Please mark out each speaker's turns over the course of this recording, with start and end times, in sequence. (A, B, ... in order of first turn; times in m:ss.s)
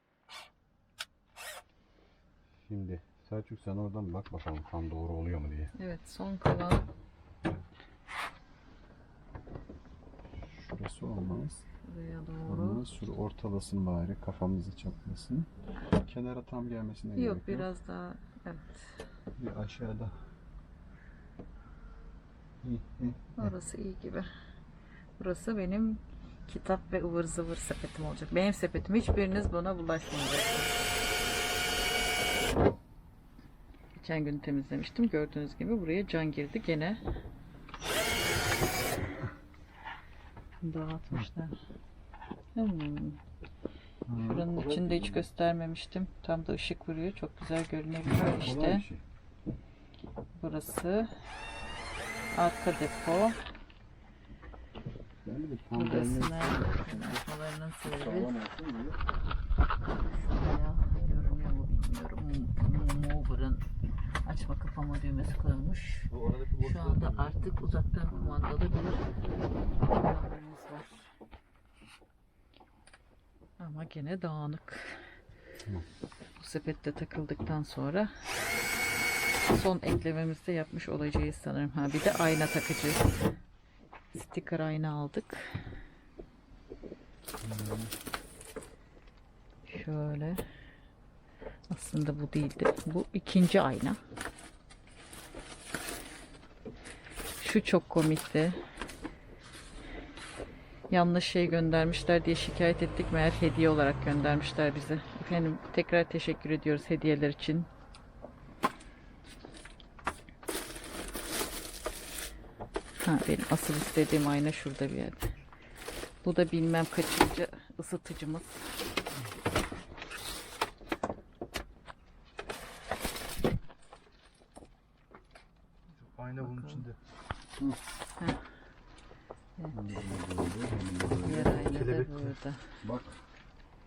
0:02.6-0:05.7 A
0:05.8-0:06.9 B
0:10.4-0:11.6 A
0:11.8-0:12.8 B
0:12.4-0:17.7 A
0:17.2-0:19.0 B
0:19.4-0:20.1 A
0:22.6-0:23.5 A
0:23.4-0:24.3 B
0:25.2-0:30.8 B
0:33.9-0:37.0 B
0:40.6-0:41.6 B
0:42.5-0:43.2 B
0:44.1-0:45.3 A
0:44.2-0:48.8 B
0:48.0-0:49.0 A
0:50.4-0:51.1 B
0:52.3-0:53.4 B
0:55.2-0:57.2 A
0:55.7-0:58.4 B
0:57.9-0:59.0 A
1:00.1-1:03.6 B
1:04.2-1:09.2 B
1:06.1-1:07.5 A
1:08.1-1:08.6 A
1:09.4-1:09.8 A
1:09.8-1:11.1 B
1:13.6-1:15.0 B
1:16.4-1:18.1 B
1:19.5-1:23.1 B
1:24.1-1:25.6 B
1:27.4-1:27.9 A
1:29.7-1:30.4 B
1:31.7-1:34.0 B
1:37.4-1:38.6 B
1:40.9-1:47.7 B
1:53.0-1:55.3 B
1:56.2-1:58.7 B
2:06.0-2:06.9 A
2:06.4-2:06.8 B
2:09.7-2:13.2 A
2:11.2-2:12.6 B